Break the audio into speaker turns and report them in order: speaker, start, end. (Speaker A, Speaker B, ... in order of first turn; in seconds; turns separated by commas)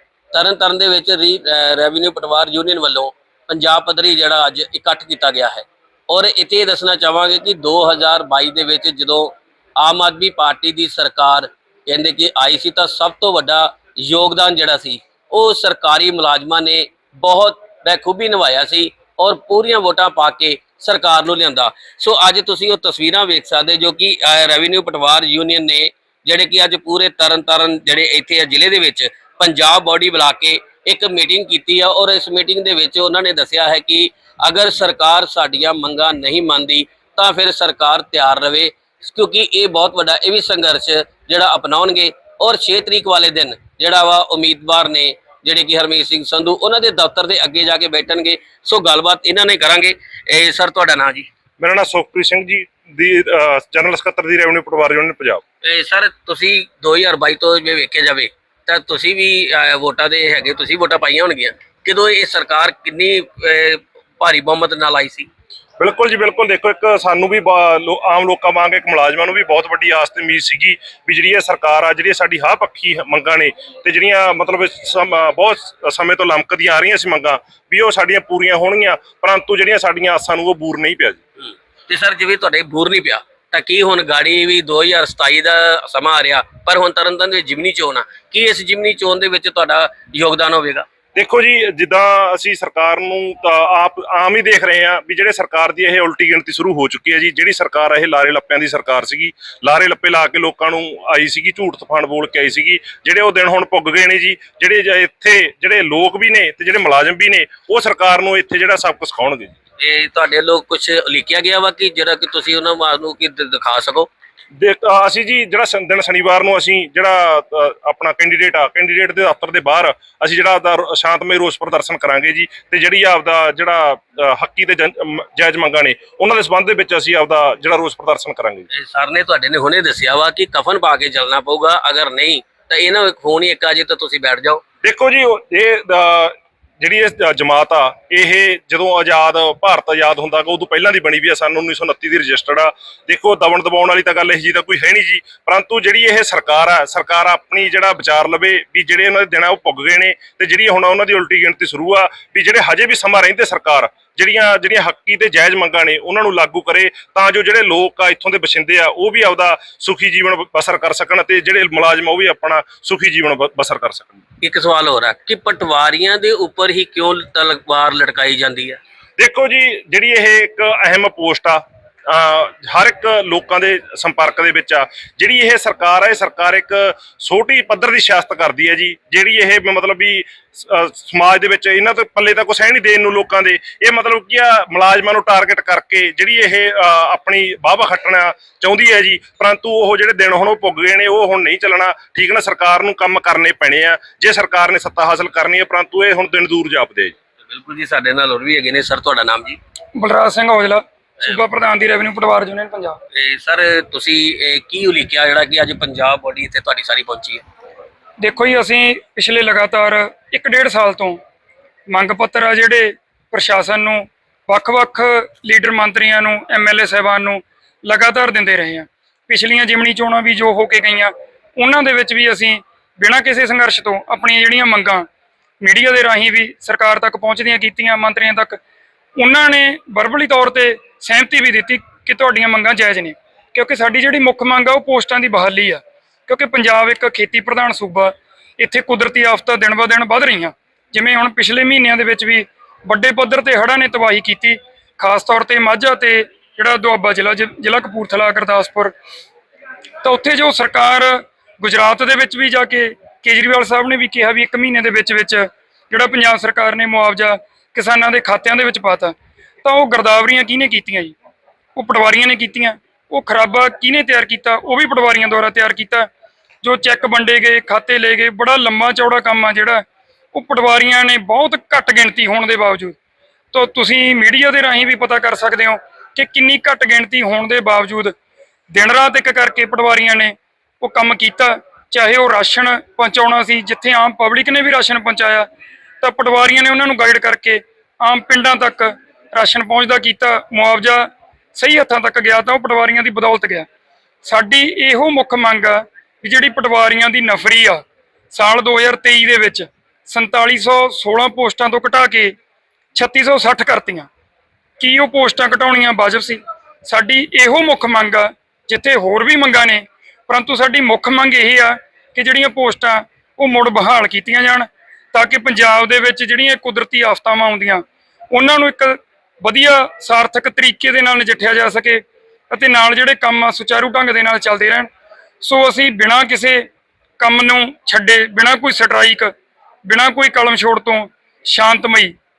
Speaker A: 0.3-51.3, Speaker B: 51.6-55.4, Speaker A: 55.6-65.3, Speaker B: 65.8-81.2, Speaker A: 81.4-90.8, Speaker B: 91.1-109.5, Speaker A: 109.8-114.1, Speaker B: 114.6-128.7, Speaker A: 128.7-134.6, Speaker B: 134.8-164.2, Speaker A: 164.4-168.8, Speaker B: 169.2-197.1, Speaker A: 197.5-199.6, Speaker C: 199.9-203.0, Speaker A: 203.1-207.4, Speaker C: 208.2-211.2, Speaker C: 211.9-225.1, Speaker C: 225.6-228.6, Speaker C: 229.2-248.9, Speaker C: 250.0-261.1, Speaker C: 261.8-266.1, Speaker C: 266.6-272.9, Speaker C: 273.5-278.1, Speaker C: 278.7-285.5, Speaker C: 286.0-293.6, Speaker C: 294.2-302.3, Speaker C: 302.9-304.1, Speaker C: 304.8-324.9, Speaker C: 325.4-326.6, Speaker C: 327.2-329.3, Speaker C: 329.8-332.1